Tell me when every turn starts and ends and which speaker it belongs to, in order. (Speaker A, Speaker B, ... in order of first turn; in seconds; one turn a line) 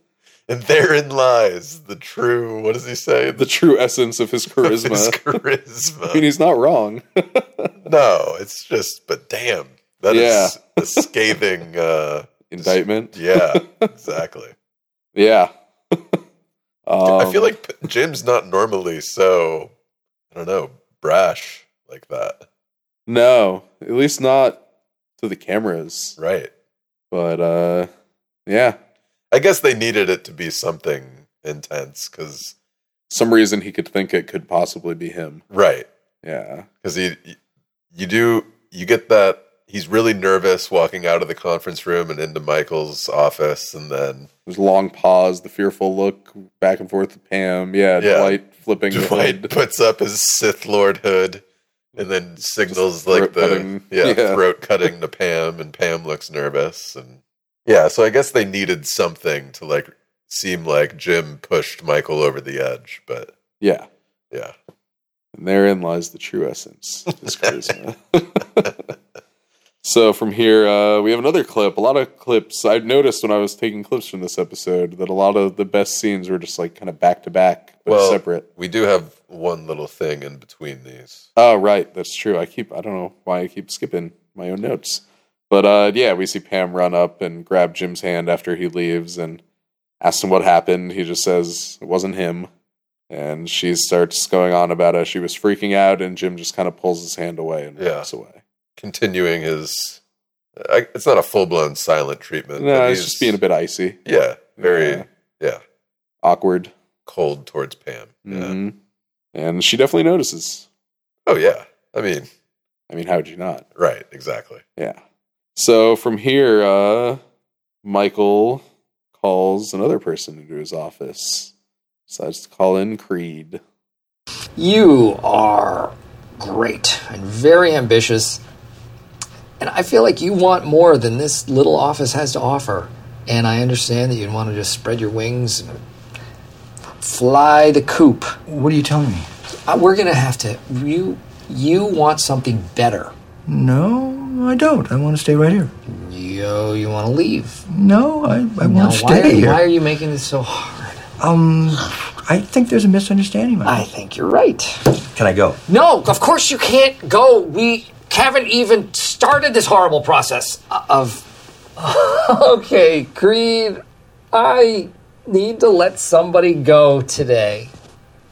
Speaker A: 0.5-3.5
Speaker B: 3.4-5.2
Speaker A: 4.6-6.2
Speaker B: 6.1-7.7
Speaker A: 7.8-14.5
Speaker B: 10.1-11.1
Speaker B: 12.5-13.9
Speaker B: 15.1-16.2
Speaker B: 16.9-17.5
Speaker A: 17.1-19.7
Speaker A: 20.3-22.4
Speaker B: 23.1-24.6
Speaker B: 25.2-26.2
Speaker A: 26.2-26.5
Speaker B: 27.1-27.9
Speaker B: 28.5-28.8
Speaker A: 29.3-32.5
Speaker B: 33.1-35.4
Speaker A: 35.5-35.9
Speaker B: 36.2-36.7
Speaker A: 36.8-37.4
Speaker A: 37.9-44.3
Speaker B: 44.5-49.5
Speaker A: 48.0-48.4
Speaker A: 48.9-51.4
Speaker A: 52.0-63.3
Speaker B: 52.7-54.4
Speaker B: 63.6-63.9
Speaker B: 65.3-68.7
Speaker B: 69.8-78.4
Speaker A: 77.9-81.3
Speaker B: 81.3-89.4
Speaker B: 90.0-92.5
Speaker B: 93.1-98.4
Speaker A: 97.8-98.1
Speaker A: 98.8-100.0
Speaker A: 100.6-103.4
Speaker B: 102.6-104.0
Speaker A: 104.0-105.6
Speaker B: 104.6-105.0
Speaker B: 106.2-106.7
Speaker A: 107.1-108.5
Speaker B: 108.3-108.8
Speaker B: 109.3-110.7
Speaker A: 111.2-112.3
Speaker B: 112.9-113.6
Speaker A: 113.8-114.6
Speaker B: 115.5-117.2
Speaker B: 117.8-118.6
Speaker B: 119.2-121.5
Speaker B: 122.1-123.6
Speaker C: 124.5-128.4
Speaker C: 129.6-135.8
Speaker C: 137.0-138.4
Speaker D: 138.5-139.3
Speaker C: 139.7-143.1
Speaker D: 143.5-145.7
Speaker C: 145.8-147.6
Speaker D: 147.7-149.7
Speaker C: 148.6-151.0
Speaker D: 151.2-153.8
Speaker C: 153.6-154.9
Speaker D: 155.1-155.6
Speaker C: 155.7-167.7